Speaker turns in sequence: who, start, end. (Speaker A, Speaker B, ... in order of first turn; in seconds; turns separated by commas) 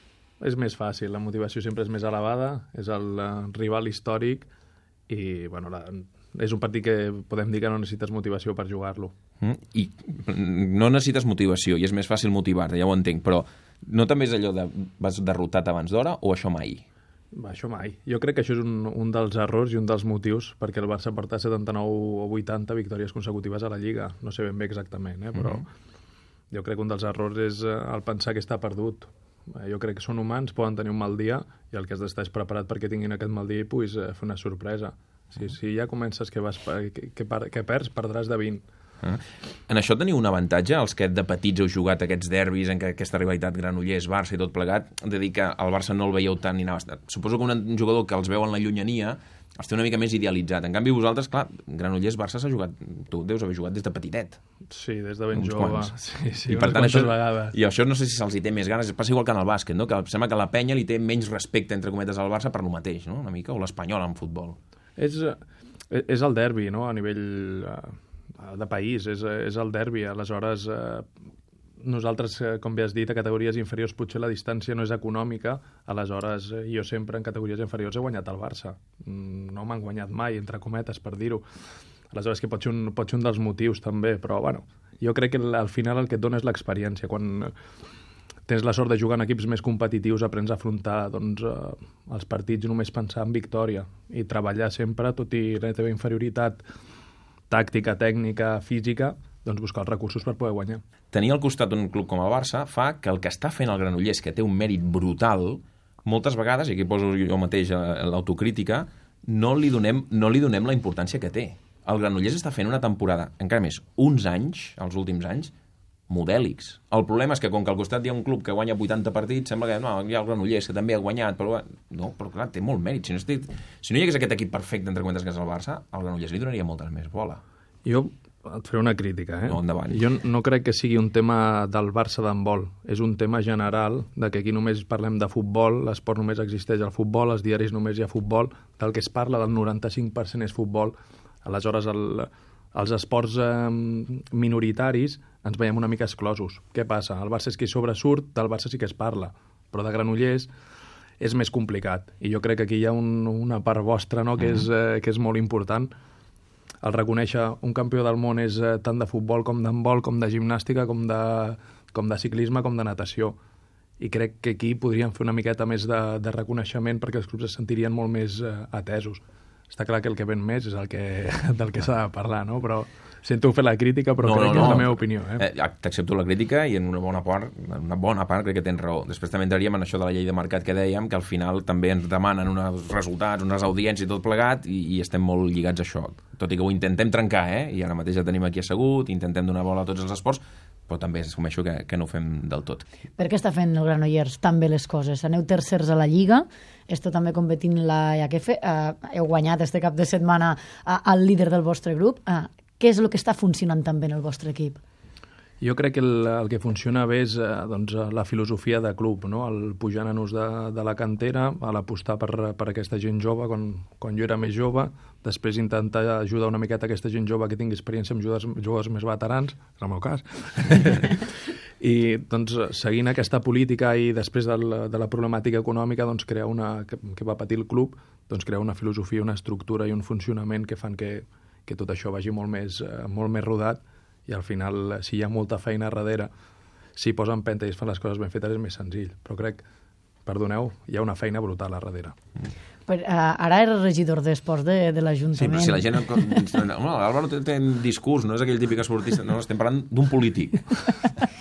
Speaker A: 0.4-4.5, Speaker A: 5.1-9.1, Speaker B: 9.4-16.8, Speaker A: 17.3-25.7, Speaker A: 26.5-38.6, Speaker B: 39.0-54.4, Speaker A: 54.7-57.5, Speaker B: 55.4-55.9, Speaker B: 56.5-64.5, Speaker A: 65.0-65.4, Speaker A: 65.9-71.1, Speaker A: 71.8-81.4, Speaker A: 82.1-87.5, Speaker A: 88.5-96.6, Speaker A: 97.5-100.8, Speaker B: 101.1-115.5, Speaker B: 116.1-127.4, Speaker A: 127.8-150.5, Speaker B: 129.5-130.0, Speaker A: 151.2-155.9, Speaker A: 156.8-163.3, Speaker A: 164.0-175.4, Speaker B: 174.2-192.8, Speaker C: 193.2-204.8, Speaker A: 205.6-236.3, Speaker A: 236.9-239.6, Speaker A: 240.2-242.1, Speaker C: 242.9-246.4, Speaker B: 245.3-250.8